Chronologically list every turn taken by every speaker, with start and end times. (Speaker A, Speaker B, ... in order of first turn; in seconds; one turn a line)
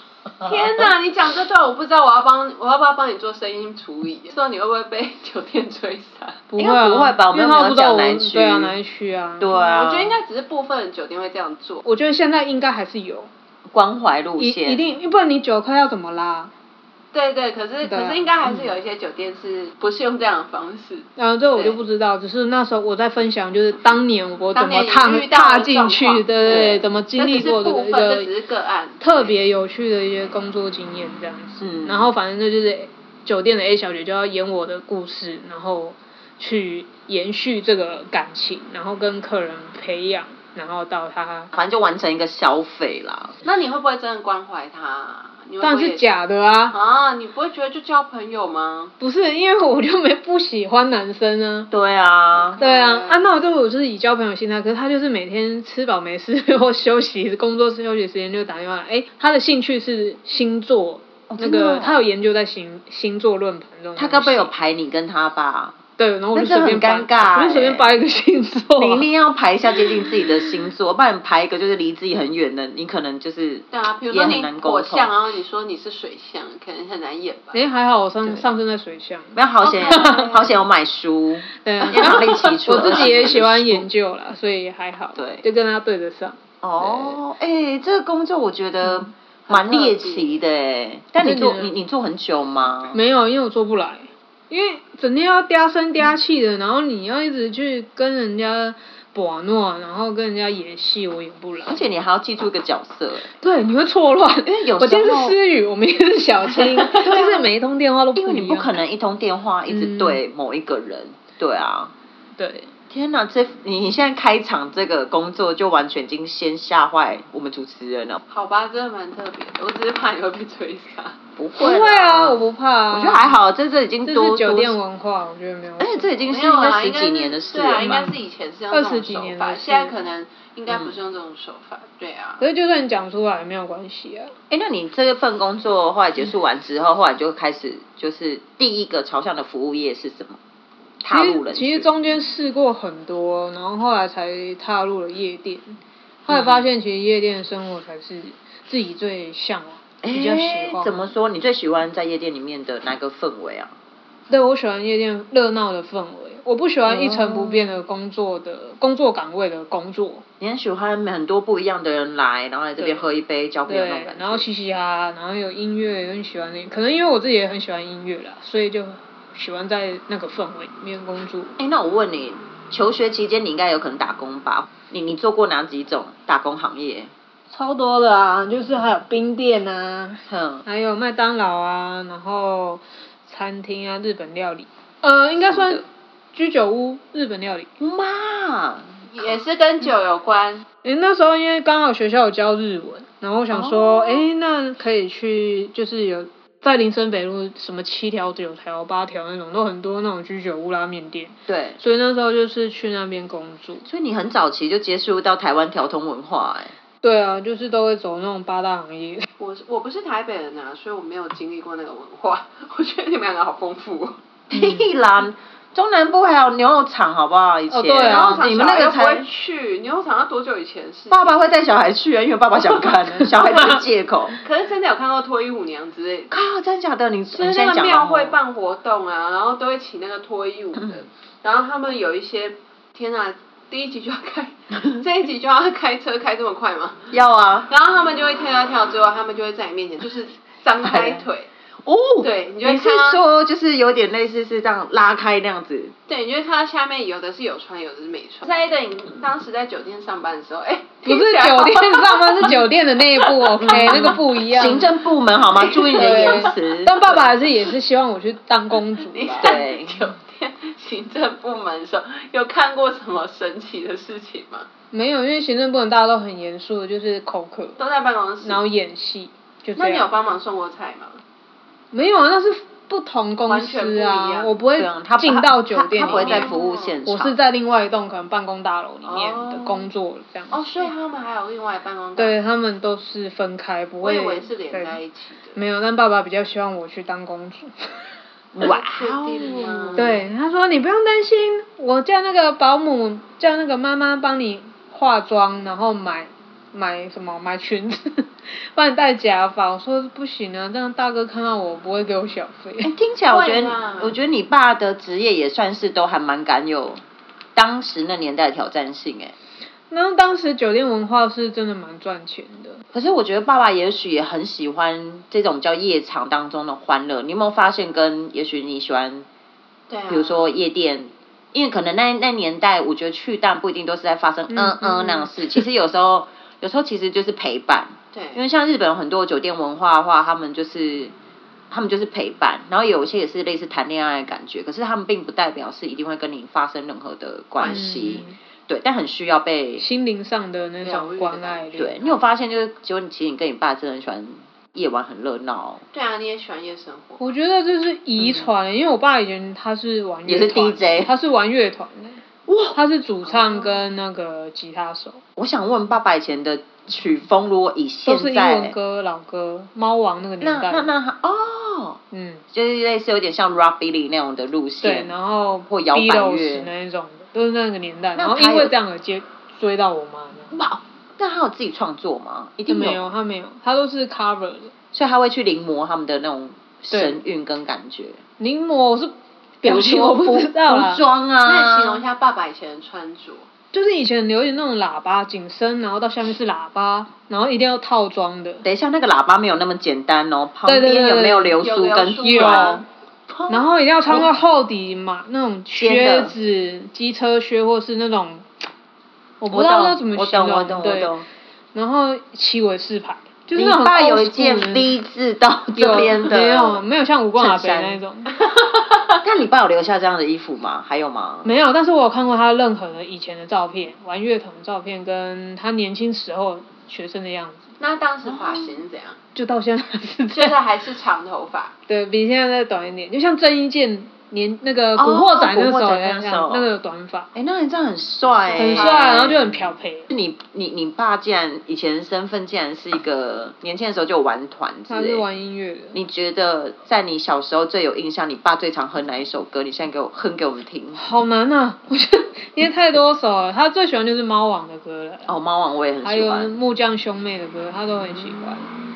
Speaker A: 0.4-6.4
Speaker B: 6.5-9.5
Speaker C: 6.6-8.8
Speaker C: 9.4-10.2
Speaker A: 9.5-11.8
Speaker B: 11.8-13.3
Speaker C: 13.7-14.9
Speaker B: 14.4-16.5
Speaker A: 17.1-21.8
Speaker B: 17.9-18.3
Speaker B: 21.2-28.3
Speaker A: 24.5-29.4
Speaker C: 26.5-26.8
Speaker B: 29.0-41.5
Speaker C: 31.6-32.1
Speaker C: 41.5-43.4
Speaker A: 43.4-46.0
Speaker B: 45.6-46.8
Speaker A: 46.7-48.9
Speaker B: 49.0-51.7
Speaker C: 51.7-52.6
Speaker A: 52.5-53.3
Speaker B: 52.6-64.5
Speaker C: 61.3-62.0
Speaker C: 64.0-65.8
Speaker B: 66.0-69.1
Speaker C: 66.3-67.9
Speaker C: 68.8-75.1
Speaker A: 73.7-77.6
Speaker B: 77.5-80.4
Speaker C: 79.3-83.9
Speaker A: 79.6-80.4
Speaker B: 81.6-87.2
Speaker A: 82.1-82.4
Speaker C: 85.2-85.4
Speaker C: 86.6-93.0
Speaker A: 89.5-90.4
Speaker B: 91.2-91.7
Speaker B: 92.9-101.8
Speaker C: 101.7-103.3
Speaker B: 103.4-108.8
Speaker C: 104.5-105.4
Speaker C: 106.9-107.5
Speaker C: 108.2-111.9
Speaker B: 109.7-110.2
Speaker B: 112.4-112.7
Speaker C: 112.9-118.2
Speaker A: 118.3-121.2
Speaker C: 121.4-124.8
Speaker B: 121.6-123.4
Speaker B: 124.1-126.1
Speaker C: 125.8-128.0
Speaker A: 126.3-132.4
Speaker B: 127.8-128.1
Speaker B: 128.7-129.9
Speaker C: 130.7-131.0
Speaker B: 132.4-134.3
Speaker C: 134.5-140.4
Speaker C: 141.0-141.9
Speaker B: 141.1-151.1
Speaker C: 146.3-146.7
Speaker C: 150.0-153.7
Speaker B: 154.3-160.2
Speaker C: 156.9-157.8
Speaker C: 160.4-164.5
Speaker B: 162.8-163.0
Speaker B: 163.7-171.6
Speaker C: 171.6-177.1
Speaker B: 177.5-187.7
Speaker C: 180.3-180.6
Speaker C: 185.5-185.8
Speaker C: 187.8-189.2
Speaker A: 189.1-190.7
Speaker B: 190.8-203.8
Speaker C: 193.5-194.3
Speaker C: 201.5-201.8
Speaker C: 203.8-206.7
Speaker B: 207.0-209.3
Speaker A: 209.4-214.2
Speaker C: 214.5-219.3
Speaker B: 214.5-214.9
Speaker B: 217.7-218.4
Speaker A: 218.0-221.4
Speaker C: 221.1-224.4
Speaker A: 222.8-223.8
Speaker A: 224.4-226.3
Speaker C: 226.3-228.4
Speaker A: 227.3-237.1
Speaker C: 230.8-231.0
Speaker C: 237.1-237.7
Speaker A: 237.7-241.5
Speaker C: 240.8-241.2
Speaker C: 241.8-245.9
Speaker A: 242.2-243.2
Speaker A: 246.1-252.6
Speaker B: 251.1-254.9
Speaker A: 253.2-254.2
Speaker C: 253.6-257.3
Speaker A: 255.6-256.5
Speaker B: 255.8-259.6
Speaker A: 259.1-264.7
Speaker C: 259.4-260.0
Speaker B: 264.9-267.8
Speaker A: 267.8-268.6
Speaker B: 268.4-270.1
Speaker A: 269.8-271.2
Speaker B: 271.9-276.6
Speaker A: 273.5-274.6
Speaker C: 274.8-277.4
Speaker A: 276.0-277.0
Speaker B: 277.1-280.9
Speaker A: 279.1-279.9
Speaker A: 280.5-282.4
Speaker B: 282.2-285.0
Speaker A: 284.0-285.6
Speaker B: 285.6-288.1
Speaker C: 288.5-290.1
Speaker A: 288.6-290.2
Speaker B: 290.0-302.9
Speaker C: 302.8-307.0
Speaker A: 303.3-304.2
Speaker C: 307.6-309.4
Speaker B: 309.9-312.8
Speaker C: 312.9-319.3
Speaker A: 319.9-320.5
Speaker C: 320.1-331.1
Speaker B: 324.5-325.3
Speaker A: 328.1-328.4
Speaker C: 331.7-339.9
Speaker A: 337.6-338.2
Speaker B: 337.6-338.4
Speaker B: 339.8-342.0
Speaker A: 340.8-342.2
Speaker C: 341.8-345.8
Speaker A: 345.9-347.3
Speaker B: 347.2-352.2
Speaker C: 348.2-348.5
Speaker C: 350.3-351.1
Speaker C: 352.5-352.8
Speaker B: 352.8-355.2
Speaker A: 353.3-353.8
Speaker C: 355.4-358.8
Speaker B: 358.1-360.9
Speaker C: 360.4-362.0
Speaker B: 362.1-362.4
Speaker C: 362.5-365.1
Speaker B: 364.8-370.5
Speaker C: 365.7-366.7
Speaker C: 368.1-368.7
Speaker C: 370.5-373.0
Speaker B: 372.7-374.7
Speaker C: 374.9-378.2
Speaker B: 376.9-377.2
Speaker B: 378.4-381.0
Speaker C: 379.6-382.0
Speaker A: 381.4-383.5
Speaker B: 383.7-388.6
Speaker C: 388.6-394.3
Speaker B: 390.6-391.6
Speaker A: 391.6-392.8
Speaker B: 392.2-392.8
Speaker B: 393.5-398.5
Speaker C: 395.8-396.4
Speaker B: 399.4-401.1
Speaker C: 399.5-401.3
Speaker B: 401.7-404.9
Speaker C: 403.6-406.8
Speaker B: 405.8-408.3
Speaker C: 407.4-408.0
Speaker A: 408.6-409.1
Speaker C: 409.2-411.5
Speaker B: 411.4-417.7
Speaker A: 417.8-419.2
Speaker C: 418.3-418.7
Speaker B: 419.4-420.6
Speaker A: 420.3-421.7
Speaker B: 421.9-427.3
Speaker C: 424.9-426.7
Speaker C: 427.4-435.2
Speaker A: 428.3-429.3
Speaker B: 428.6-430.1
Speaker B: 434.9-436.0
Speaker C: 435.9-441.0
Speaker B: 441.0-445.3
Speaker C: 445.3-446.5
Speaker B: 446.0-448.7